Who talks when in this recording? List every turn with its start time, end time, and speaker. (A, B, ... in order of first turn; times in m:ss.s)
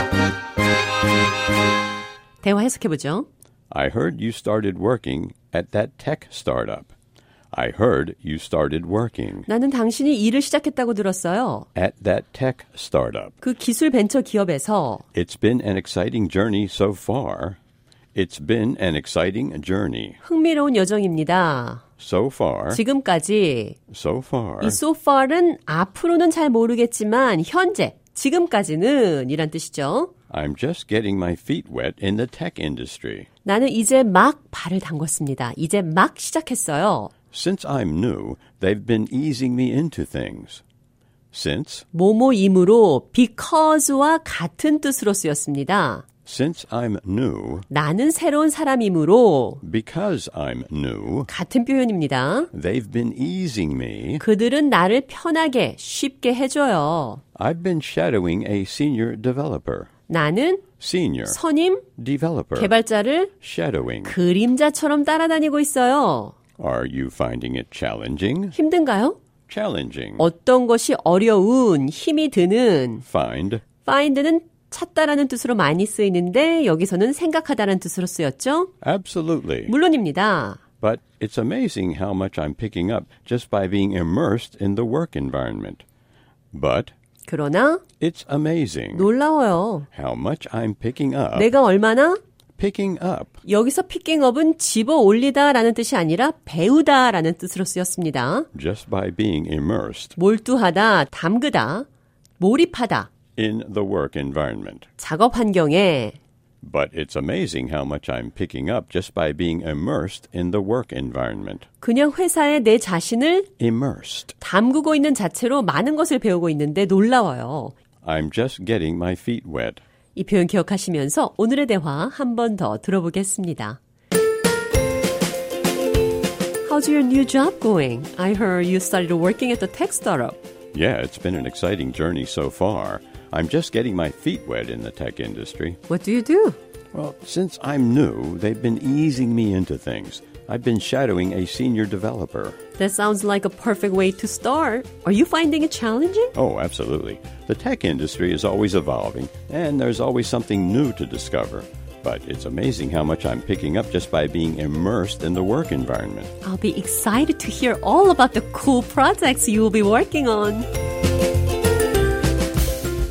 0:02.4-0:03.3 A
0:03.7-0:06.9 B
0:07.5-0:09.5 B
0:09.5-0:11.7 A
0:11.8-0:13.3 B
0:13.4-0:15.0 A
0:15.1-0:17.6 B
0:18.2-0:20.2 B
0:20.2-0:21.8 A
0:22.0-0:22.8 B
0:22.7-0:23.8 A
0:23.9-0:24.8 B
0:24.6-0:30.1 A
0:30.3-0:33.3 B
0:33.4-0:37.1 A
0:37.3-0:40.6 B
0:41.3-0:41.8 B
0:41.9-0:46.1 A
0:46.2-0:47.7 B
0:47.7-0:49.6 A
0:49.6-0:51.3 B
0:51.3-0:52.5 A
0:52.5-0:54.2 B
0:54.2-0:57.2 A
0:57.4-0:59.9 B
1:00.1-1:00.6 A
1:00.8-1:01.4 B
1:01.3-1:01.8 A
1:02.0-1:02.7 B
1:02.6-1:03.3 A
1:03.4-1:04.2 B
1:04.0-1:06.4 A
1:06.6-1:08.6 B
1:08.5-1:09.2 A
1:09.5-1:10.3 B
1:10.2-1:13.0 A
1:13.0-1:13.7 B
1:13.8-1:18.7 A
1:18.8-1:19.7 B
1:19.7-1:20.6 A
1:20.8-1:25.8 B
1:26.5-1:26.9 B
1:27.3-1:27.8 A
1:28.0-1:29.1 B
1:28.9-1:29.9 A
1:29.9-1:31.5 B
1:31.3-1:32.2 A
1:32.6-1:33.4 B
1:33.5-1:38.5 A
1:38.5-1:40.2 B
1:40.2-1:41.9 A
1:42.4-1:43.1 A
1:43.4-1:44.9 B
1:45.0-1:46.2 A
1:46.6-1:51.6 B
1:51.8-1:53.5 A
1:53.6-1:54.4 B
1:54.4-1:57.8 A
1:58.0-1:59.8 B
2:00.2-2:03.8 A
2:06.6-2:10.4 A
2:10.7-2:15.8 B
2:15.9-2:16.6 A
2:16.9-2:22.6 B
2:22.8-2:26.3 A
2:26.4-2:36.3 B
2:36.4-2:40.7 A